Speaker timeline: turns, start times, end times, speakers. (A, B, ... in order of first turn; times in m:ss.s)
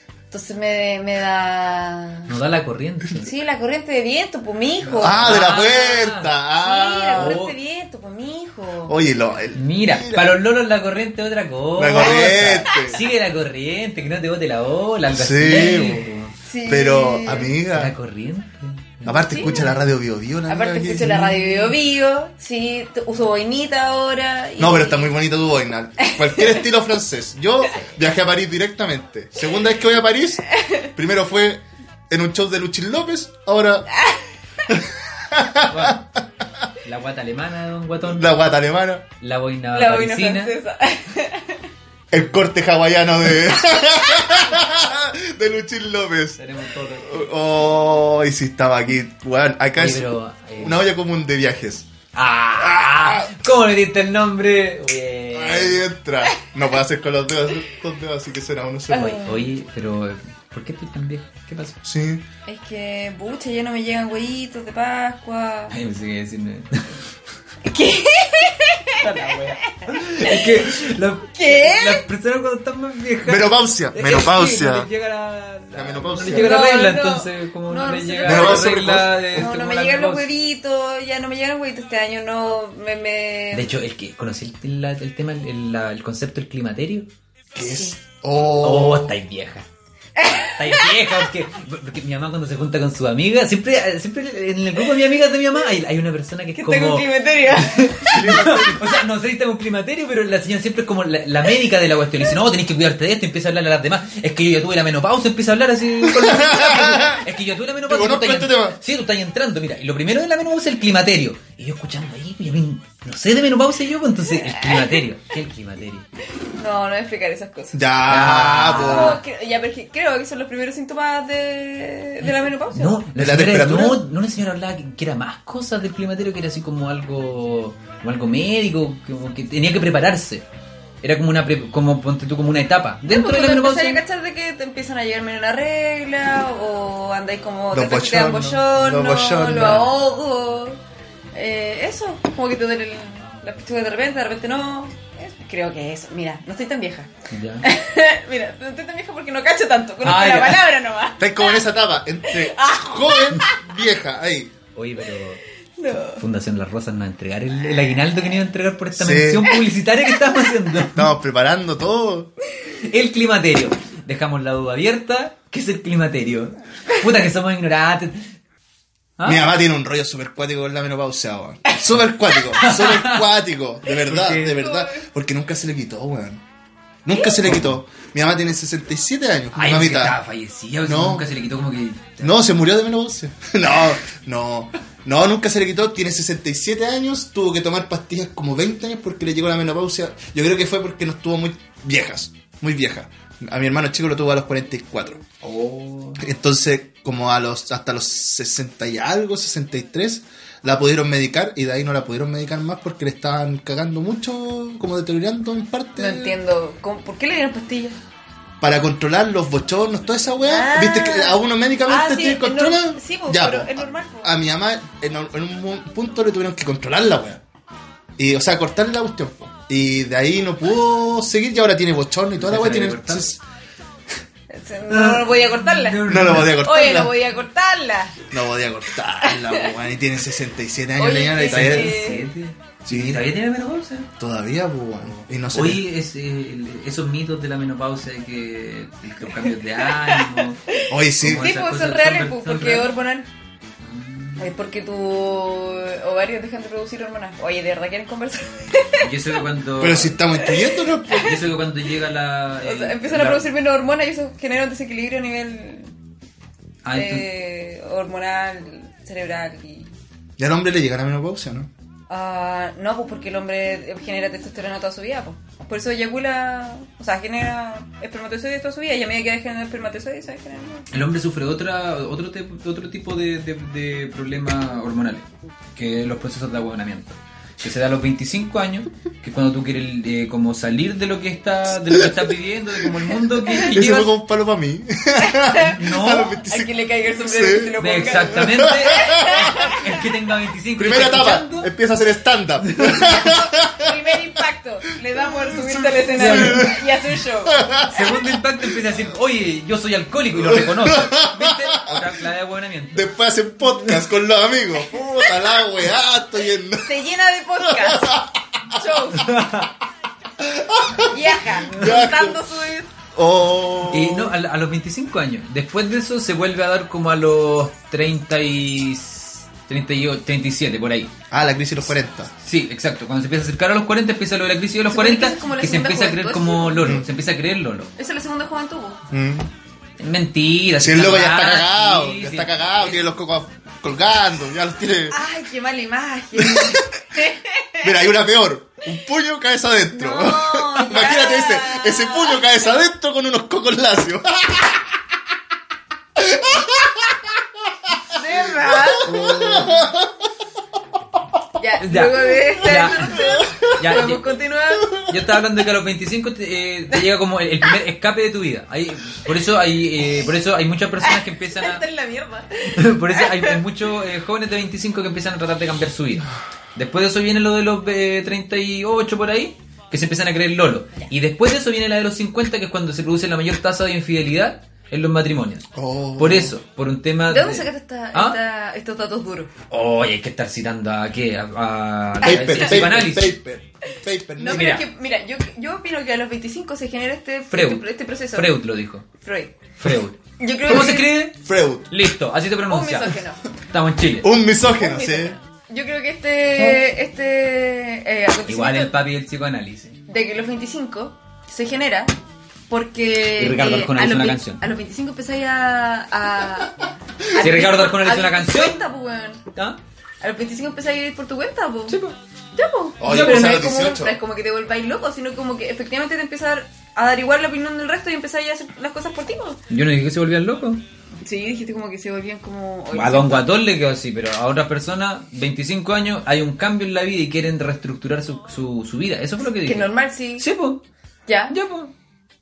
0:00.3-0:02.3 A
0:02.3-0:03.3 B
0:03.2-0:05.4 A
0:04.8-0:06.3 B
0:05.0-0:07.4 C
0:06.6-0:09.0 A
0:07.1-0:07.5 B
0:08.9-0:10.4 C
0:09.5-0:16.3 B
0:11.8-0:13.0 C
0:12.0-0:12.9 A
0:15.1-0:16.1 C
0:16.4-0:17.6 A
0:16.6-0:17.9 C
0:17.7-0:19.8 B
0:19.0-0:21.7 C
0:19.3-0:19.7 A
0:20.5-0:25.1 A
0:24.6-0:33.9 C
0:26.0-0:26.6 A
0:30.5-0:30.9 A
0:34.0-0:34.7 A
0:34.7-0:36.2 C
0:35.7-0:36.0 B
0:36.8-0:38.3 B
0:38.0-0:39.0 C
0:39.2-0:40.5 B
0:39.7-0:41.7 A
0:42.1-0:46.4 C
0:46.4-0:47.2 B
0:47.0-0:51.9 C
0:49.8-0:50.8 B
0:52.1-0:55.8 B
0:52.6-0:53.3 C
0:55.3-0:59.2 C
0:58.9-0:59.5 A
0:58.9-1:01.8 B
1:01.8-1:02.2 C
1:02.5-1:05.7 A
1:05.7-1:07.0 B
1:07.6-1:09.7 A
1:09.0-1:20.3 B
1:10.2-1:10.6 A
1:11.3-1:12.0 A
1:13.2-1:14.9 C
1:15.7-1:16.6 C
1:16.2-1:23.7 A
1:18.2-1:19.4 C
1:23.5-1:27.1 B
1:27.5-1:29.1 C
1:27.6-1:28.0 A
1:28.6-1:29.7 B
1:30.2-1:31.1 A
1:30.3-1:56.1 B
1:36.6-1:38.3 A
1:38.1-1:39.0 C
1:46.0-1:47.2 C
1:47.9-1:48.8 C
1:54.3-1:55.0 A
1:56.6-1:57.8 A
1:57.7-1:59.2 C
1:58.1-1:59.2 B
1:58.7-2:03.0 A
2:02.2-2:10.4 B
2:03.2-2:04.0 C
2:11.0-2:14.0 B
2:13.1-2:20.8 A
2:17.7-2:19.9 C
2:19.6-2:19.9 B
2:21.3-2:27.1 A
2:27.3-2:27.6 B
2:27.6-2:31.6 A
2:30.0-2:30.6 B
2:31.2-2:34.5 C
2:32.3-2:33.6 A
2:34.7-2:35.4 B
2:35.8-2:36.2 A
2:36.2-2:41.1 B
2:38.9-2:39.5 C
2:40.9-2:42.3 C
2:42.7-2:48.3 B
2:49.2-2:49.5 B
2:49.2-2:56.4 C
2:52.6-2:53.2 B
2:53.9-2:54.6 B
2:54.4-2:55.0 A
2:57.0-3:00.2 C
2:57.5-2:57.7 B
2:59.5-3:02.4 B
3:00.8-3:01.3 C
3:02.2-3:15.2 C
3:15.4-3:16.2 B
3:16.2-3:26.3 C
3:26.0-3:28.0 A
3:28.6-3:37.4 C
3:30.4-3:34.3 A
3:38.2-3:43.4 C
3:42.4-3:43.3 B
3:44.5-3:48.3 A
3:44.9-3:46.6 B
3:46.1-3:47.1 C
3:48.3-3:52.0 C
3:49.2-3:49.7 A
3:51.0-3:52.3 A
3:51.4-3:54.1 B
3:52.8-3:53.3 C
3:54.2-3:55.8 C
3:55.0-4:00.6 B
3:59.4-4:03.3 A
4:00.9-4:01.5 C
4:01.2-4:02.9 B
4:03.8-4:04.5 B
4:04.4-4:09.1 A
4:09.0-4:10.2 B
4:09.8-4:11.3 C
4:10.4-4:11.4 A
4:11.1-4:13.5 B
4:12.6-4:15.9 A
4:16.8-4:17.2 B
4:16.9-4:19.9 A
4:20.4-4:21.7 C
4:22.1-4:30.9 A
4:30.9-4:44.1 B
4:41.8-4:42.3 C
4:43.5-4:49.8 C
4:45.2-4:49.9 A
4:45.7-4:46.4 B
4:47.8-4:51.7 B
4:50.8-4:54.2 C
4:52.6-4:53.3 B
4:53.2-4:57.6 A
4:55.3-4:56.9 C
4:56.2-4:56.7 B
4:57.4-4:58.8 C
4:57.9-5:03.1 B
5:00.3-5:02.1 C
5:02.9-5:07.0 C
5:06.8-5:08.1 A
5:07.6-5:08.8 C
5:08.7-5:09.3 A
5:09.1-5:09.7 B
5:10.4-5:12.4 C
5:11.1-5:12.9 A
5:13.1-5:14.4 C
5:13.9-5:21.1 B
5:21.3-5:22.3 C
5:22.4-5:27.9 B
5:24.9-5:26.9 A
5:26.8-5:27.0 C
5:28.0-5:29.0 A
5:29.1-5:29.5 C
5:30.0-5:33.0 B
5:30.8-5:35.2 C
5:35.1-5:38.0 A
5:36.3-5:37.0 C
5:37.8-5:44.8 C
5:39.9-5:42.5 A
5:46.2-5:47.4 C
5:48.1-5:49.2 A
5:48.8-5:50.2 C
5:49.0-5:49.8 B
5:51.6-5:55.0 A
5:51.8-5:53.2 B
5:52.8-5:54.0 C
5:53.8-5:54.2 B
5:54.8-5:55.1 C
5:55.0-6:01.8 B
6:01.0-6:03.6 A
6:02.7-6:18.4 B
6:15.7-6:16.5 C
6:17.3-6:19.5 A
6:19.7-6:23.4 B
6:22.2-6:22.8 A
6:22.2-6:24.8 C
6:24.4-6:28.6 A
6:24.5-6:24.8 B
6:27.5-6:29.0 B
6:29.2-6:29.5 A
6:29.8-6:33.2 B
6:30.4-6:31.1 A
6:31.4-6:31.9 C
6:32.7-6:33.4 A
6:33.7-6:34.3 B
6:34.2-6:35.4 C
6:34.6-6:38.9 A
6:38.4-6:40.0 B
6:40.1-6:42.1 A
6:42.7-6:49.4 A
6:43.4-6:44.6 B
6:47.4-6:48.8 B
6:50.2-6:52.0 A
6:51.9-6:52.2 B
6:52.6-6:59.6 A
6:53.0-6:54.2 C
6:53.0-6:53.6 B
6:59.7-7:00.8 B
7:01.2-7:03.5 A
7:02.9-7:10.8 B
7:09.6-7:10.5 A
7:11.3-7:11.5 A
7:11.5-7:11.9 B